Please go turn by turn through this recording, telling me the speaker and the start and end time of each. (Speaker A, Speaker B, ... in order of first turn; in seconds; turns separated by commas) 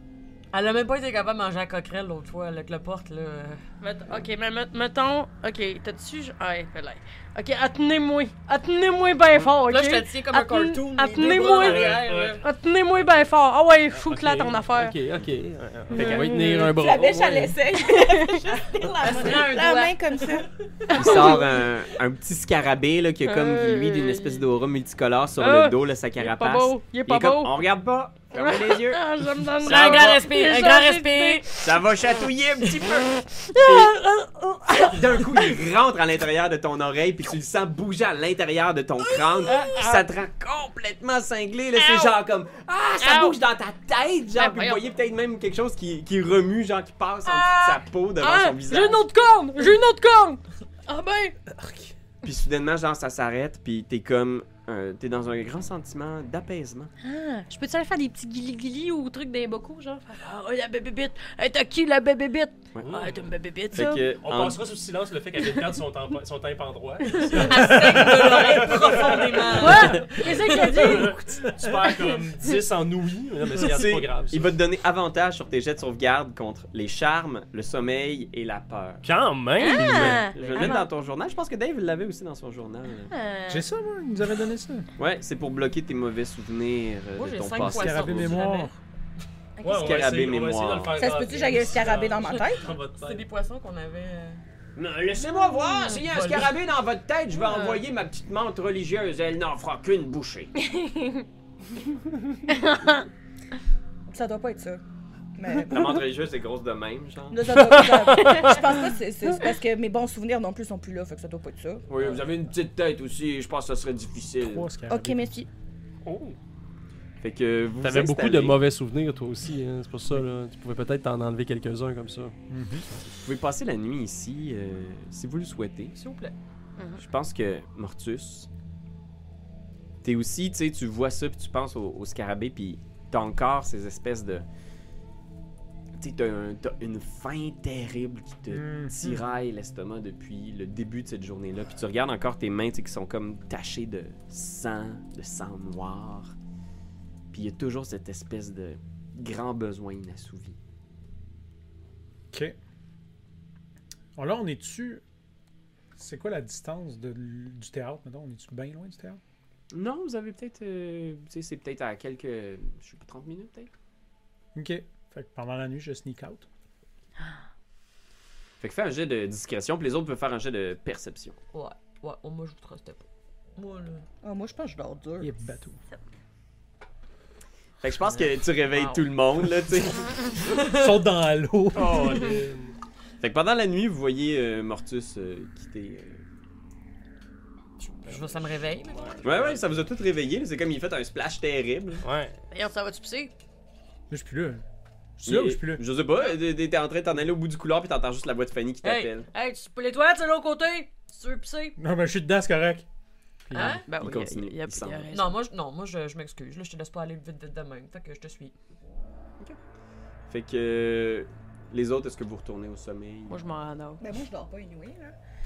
Speaker A: 0.5-3.6, Speaker B: 3.8-15.0, Speaker A: 9.6-12.4, Speaker C: 11.5-12.4, Speaker C: 14.0-17.6, Speaker B: 15.9-16.8, Speaker D: 16.6-21.4, Speaker B: 17.7-18.5, Speaker A: 18.4-20.5, Speaker E: 20.9-29.1, Speaker B: 21.1-21.4, Speaker B: 23.2-24.5, Speaker B: 25.4-27.6, Speaker B: 28.3-31.8, Speaker A: 29.6-31.5, Speaker E: 29.7-30.1, Speaker E: 31.6-34.0, Speaker B: 33.3-35.5, Speaker E: 34.9-49.0, Speaker B: 39.4-40.0, Speaker B: 41.8-42.1, Speaker B: 43.0-43.4, Speaker B: 44.4-44.9, Speaker B: 47.3-47.7, Speaker B: 48.2-51.4, Speaker F: 51.5-51.9, Speaker E: 52.2-56.9, Speaker B: 57.0-64.1, Speaker C: 62.8-63.2, Speaker E: 63.7-64.6, Speaker C: 64.2-74.5, Speaker A: 67.1-71.0, Speaker B: 69.5-71.5, Speaker F: 71.2-71.9, Speaker E: 73.6-79.0, Speaker C: 79.0-80.8, Speaker B: 79.6-80.8, Speaker A: 79.6-80.8, Speaker E: 80.5-83.1, Speaker B: 83.1-83.6, Speaker F: 83.5-84.9, Speaker E: 85.0-88.4, Speaker A: 87.2-88.7, Speaker F: 87.6-88.8, Speaker B: 89.6-90.0, Speaker C: 89.6-93.2, Speaker E: 89.7-91.0, Speaker D: 91.0-92.7, Speaker A: 92.8-94.4, Speaker E: 94.8-100.5, Speaker A: 96.0-96.5, Speaker B: 97.5-97.8, Speaker B: 100.7-101.2, Speaker B: 102.5-103.0, Speaker D: 104.1-104.8, Speaker D: 105.4-106.0, Speaker E: 105.7-107.4, Speaker D: 107.3-111.8, Speaker C: 107.7-108.6, Speaker E: 111.9-114.7, Speaker F: 114.4-115.5, Speaker D: 114.9-115.5, Speaker C: 116.0-116.4, Speaker E: 117.2-118.6, Speaker C: 117.8-122.3, Speaker F: 122.5-122.9, Speaker E: 123.0-126.0, Speaker A: 126.0-126.3, Speaker E: 127.0-128.5, Speaker E: 130.0-134.4, Speaker E: 136.0-146.3, Speaker F: 138.5-139.2, Speaker E: 147.3-150.6, Speaker F: 152.3-152.6, Speaker F: 154.2-155.0, Speaker F: 156.0-159.2, Speaker E: 159.7-163.7, Speaker F: 164.6-166.5, Speaker E: 168.6-171.4, Speaker A: 171.5-174.1, Speaker D: 174.2-175.3, Speaker F: 175.2-175.8, Speaker E: 177.8-180.1, Speaker A: 178.0-179.1, Speaker A: 180.4-181.0, Speaker F: 180.7-182.2, Speaker C: 181.7-182.8, Speaker E: 183.2-186.2, Speaker A: 187.8-189.3, Speaker C: 188.1-188.3, Speaker C: 188.9-189.7, Speaker E: 189.2-192.0, Speaker C: 192.0-192.4, Speaker B: 192.5-193.3, Speaker F: 194.1-194.6, Speaker F: 195.2-195.8, Speaker E: 195.2-199.3, Speaker A: 198.8-199.1, Speaker B: 199.3-201.8, Speaker F: 201.8-202.8, Speaker E: 203.5-205.1, Speaker A: 203.5-203.9, Speaker B: 203.6-205.4, Speaker A: 205.1-208.5, Speaker E: 210.3-213.4, Speaker B: 213.3-214.0, Speaker D: 214.0-215.1